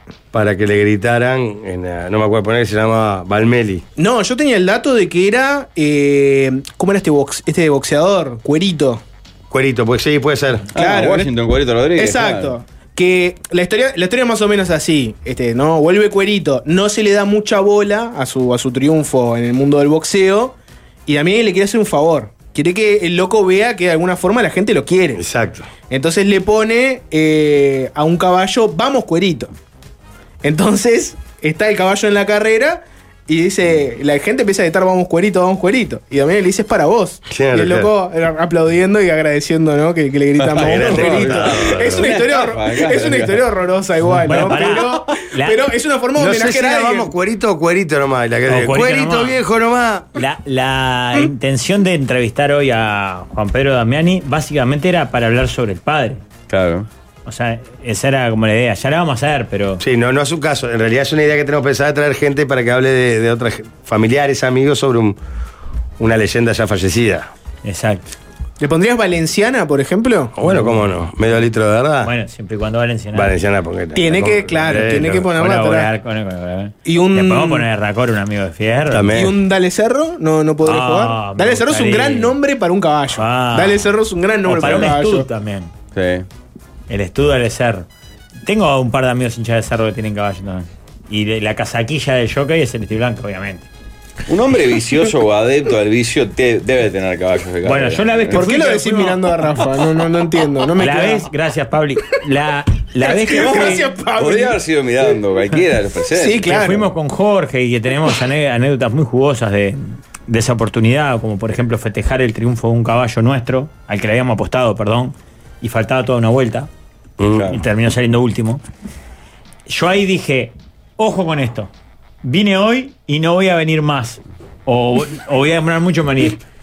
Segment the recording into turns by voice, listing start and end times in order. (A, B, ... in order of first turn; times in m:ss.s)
0:00.3-0:03.8 A
0:04.0-0:09.0 B
0:09.5-0:10.7 A
0:10.7-0:12.6 C
0:10.7-0:11.3 B
0:11.9-0:25.2 B
0:25.2-0:25.7 A
0:25.9-0:29.5 B
0:30.4-0:47.1 B
0:37.3-0:37.9 A
0:40.4-0:43.6 C
0:40.6-0:42.1 A
0:44.2-0:45.7 D
0:44.2-0:44.8 C
0:46.1-0:50.1 A
0:48.5-0:49.4 D
0:50.1-0:56.2 D
0:56.5-0:56.9 C
0:57.2-0:59.8 D
0:59.8-1:05.2 A
1:06.0-1:07.3 A
1:07.6-1:08.1 D
1:08.6-1:10.3 B
1:10.4-1:12.1 A
1:10.5-1:10.8 D
1:12.0-1:13.3 D
1:13.1-1:15.3 A
1:13.9-1:15.9 B
1:14.7-1:19.2 D
1:16.8-1:17.7 B
1:18.9-1:19.3 A
1:19.1-1:25.3 B
1:20.6-1:22.3 D
1:23.1-1:23.9 D
1:24.4-1:25.7 D
1:25.9-1:26.2 C
1:26.9-1:27.9 D
1:28.4-1:33.7 D
1:34.3-1:38.5 C
1:37.6-1:39.3 D
1:38.3-1:41.3 B
1:40.8-1:43.9 D
1:43.0-1:44.6 B
1:43.3-1:46.6 C
1:46.1-1:46.9 B
1:46.4-1:56.7 D
1:57.2-1:57.6 A
1:57.4-1:58.6 D
1:59.7-2:01.7 D
2:02.2-2:06.4 D